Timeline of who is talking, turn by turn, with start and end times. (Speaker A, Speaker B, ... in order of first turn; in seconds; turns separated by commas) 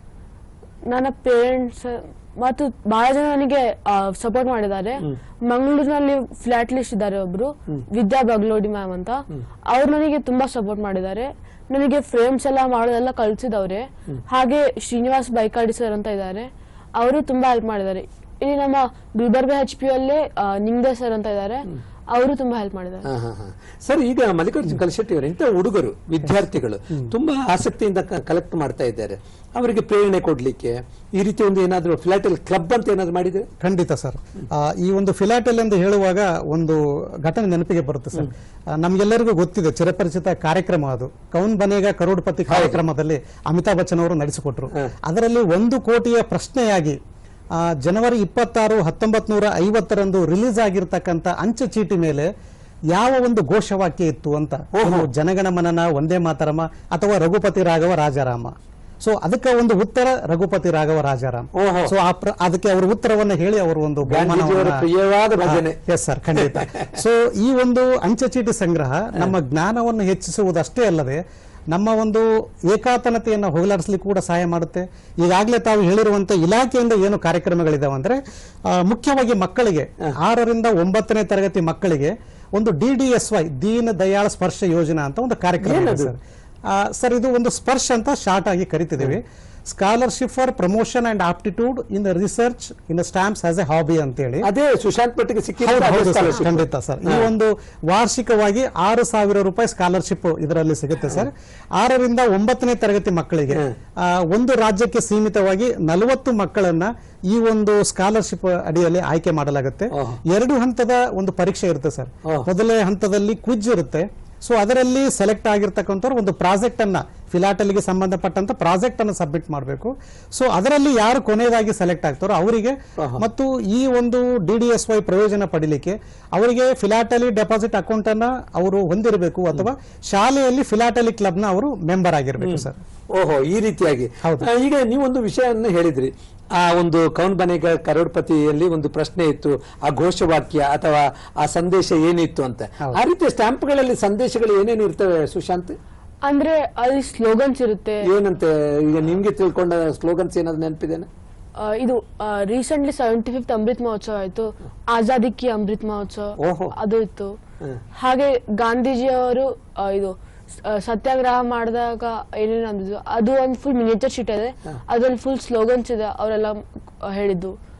Speaker A: 0.9-23.1, Speaker B: 23.1-33.5, Speaker C: 33.6-47.0, Speaker B: 42.5-42.8, Speaker C: 47.5-52.3, Speaker C: 52.9-64.8, Speaker B: 54.7-55.1, Speaker B: 61.5-61.9, Speaker B: 64.1-65.8, Speaker C: 65.4-94.5, Speaker B: 66.4-66.9, Speaker B: 85.6-86.1, Speaker B: 94.4-97.3, Speaker C: 95.6-132.8, Speaker B: 109.9-110.2, Speaker B: 123.0-123.2, Speaker B: 132.4-145.8, Speaker C: 134.2-134.5, Speaker A: 146.2-148.1, Speaker B: 148.1-151.1, Speaker A: 151.6-157.4, Speaker B: 156.4-156.7, Speaker A: 157.9-167.5